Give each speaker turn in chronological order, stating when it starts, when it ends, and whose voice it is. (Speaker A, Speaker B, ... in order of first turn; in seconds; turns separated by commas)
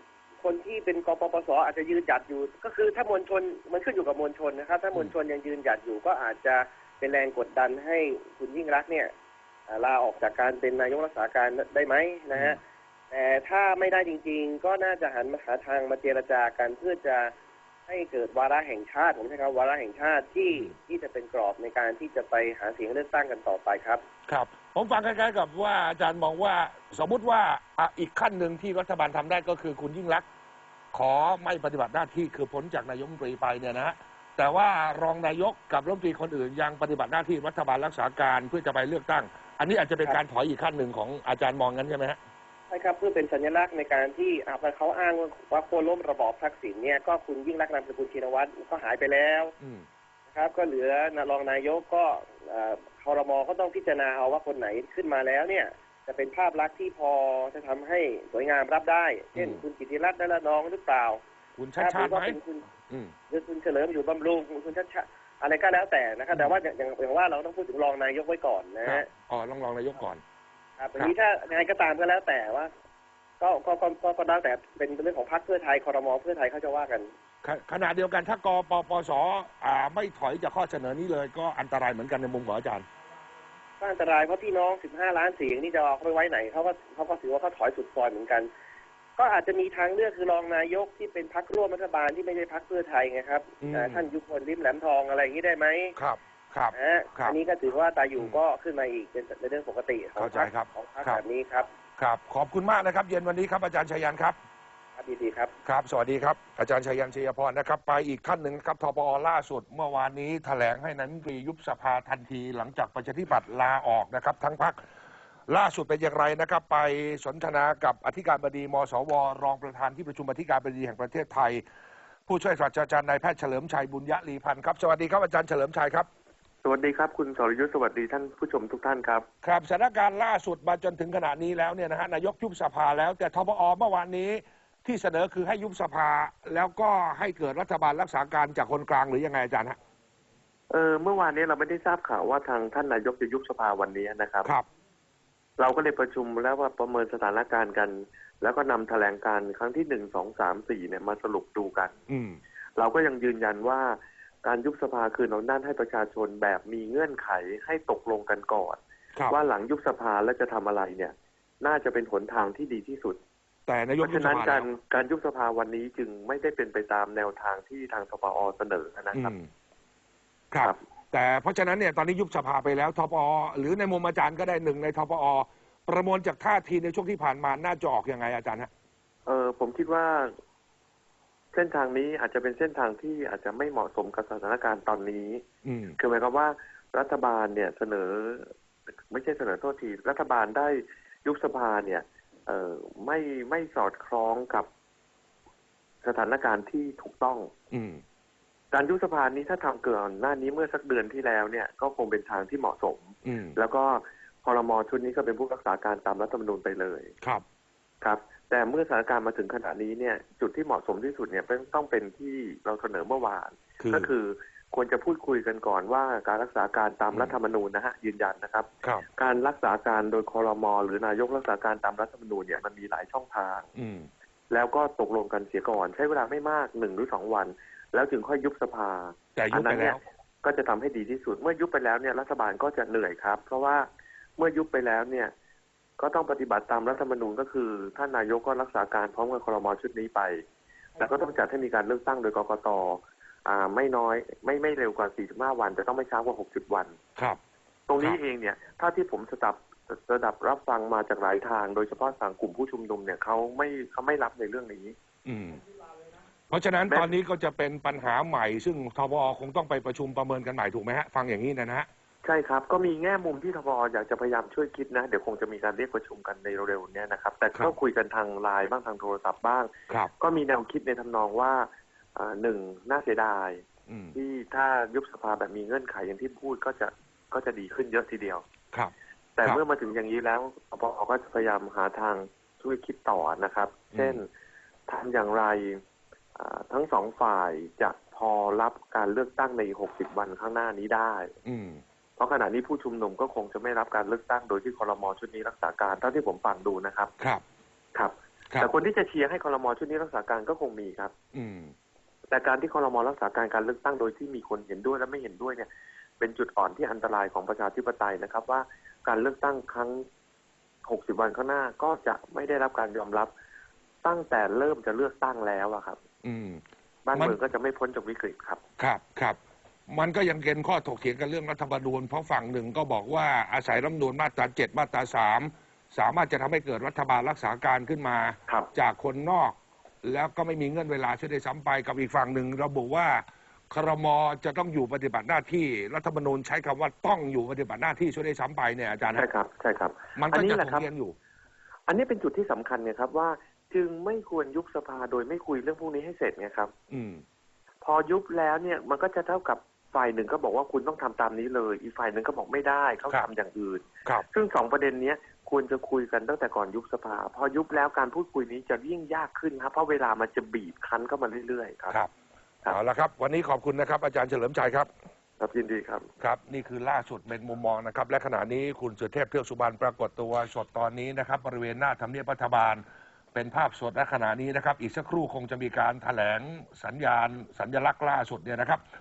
Speaker A: 0.4-9.1, Speaker A: 9.7-12.6, Speaker B: 12.3-12.6, Speaker A: 13.1-17.3, Speaker A: 17.9-24.0, Speaker B: 24.3-30.2, Speaker B: 30.9-42.2, Speaker A: 42.7-49.5, Speaker B: 49.6-49.9, Speaker A: 50.3-61.2, Speaker B: 59.3-59.6, Speaker B: 61.6-62.4, Speaker A: 61.8-62.7, Speaker B: 62.9-63.1, Speaker A: 63.3-69.1, Speaker B: 68.8-70.2, Speaker A: 70.8-72.7, Speaker A: 73.4-77.1, Speaker B: 77.4-82.8, Speaker A: 83.8-88.5, Speaker A: 89.2-96.0, Speaker B: 93.6-94.1, Speaker B: 96.0-97.4, Speaker A: 96.7-101.7, Speaker B: 100.2-101.2, Speaker B: 102.0-104.3, Speaker A: 105.0-105.5, Speaker B: 105.6-114.8, Speaker B: 115.5-121.6, Speaker B: 122.3-126.1, Speaker C: 126.6-129.2, Speaker B: 129.4-139.8, Speaker C: 140.7-144.5, Speaker C: 145.6-151.9, Speaker B: 152.1-152.4, Speaker C: 152.8-163.2, Speaker B: 163.7-164.7, Speaker C: 164.0-169.3, Speaker B: 169.1-169.5, Speaker B: 170.5-178.7, Speaker C: 179.2-180.3, Speaker C: 181.5-185.4, Speaker B: 185.6-186.0, Speaker C: 186.0-188.5, Speaker C: 189.1-194.7, Speaker C: 196.0-197.5, Speaker B: 197.7-198.0, Speaker C: 198.7-207.1, Speaker B: 203.2-203.6, Speaker C: 208.0-223.7, Speaker B: 213.8-214.1, Speaker B: 223.7-224.1, Speaker C: 224.5-235.3, Speaker B: 229.3-230.0, Speaker C: 236.0-240.4, Speaker C: 241.0-246.9, Speaker C: 247.9-254.9, Speaker B: 255.2-255.6, Speaker B: 256.5-261.9, Speaker C: 262.2-278.4, Speaker B: 273.9-274.1, Speaker B: 278.7-279.6, Speaker C: 279.4-284.3, Speaker B: 283.9-284.2, Speaker C: 284.9-285.8, Speaker C: 286.4-291.3, Speaker B: 291.4-291.8, Speaker C: 292.2-297.1, Speaker C: 297.9-301.1, Speaker B: 301.3-301.7, Speaker C: 302.3-305.7, Speaker C: 306.2-310.0, Speaker C: 310.8-313.3, Speaker C: 314.0-316.0, Speaker B: 316.2-316.6, Speaker C: 317.0-318.6, Speaker B: 318.8-319.4, Speaker B: 319.9-339.3, Speaker C: 339.1-340.9, Speaker B: 340.1-341.1, Speaker C: 341.9-346.7, Speaker B: 346.9-347.2, Speaker C: 347.8-362.0, Speaker B: 362.7-364.9, Speaker C: 365.4-366.1, Speaker B: 366.2-372.8, Speaker B: 373.3-378.8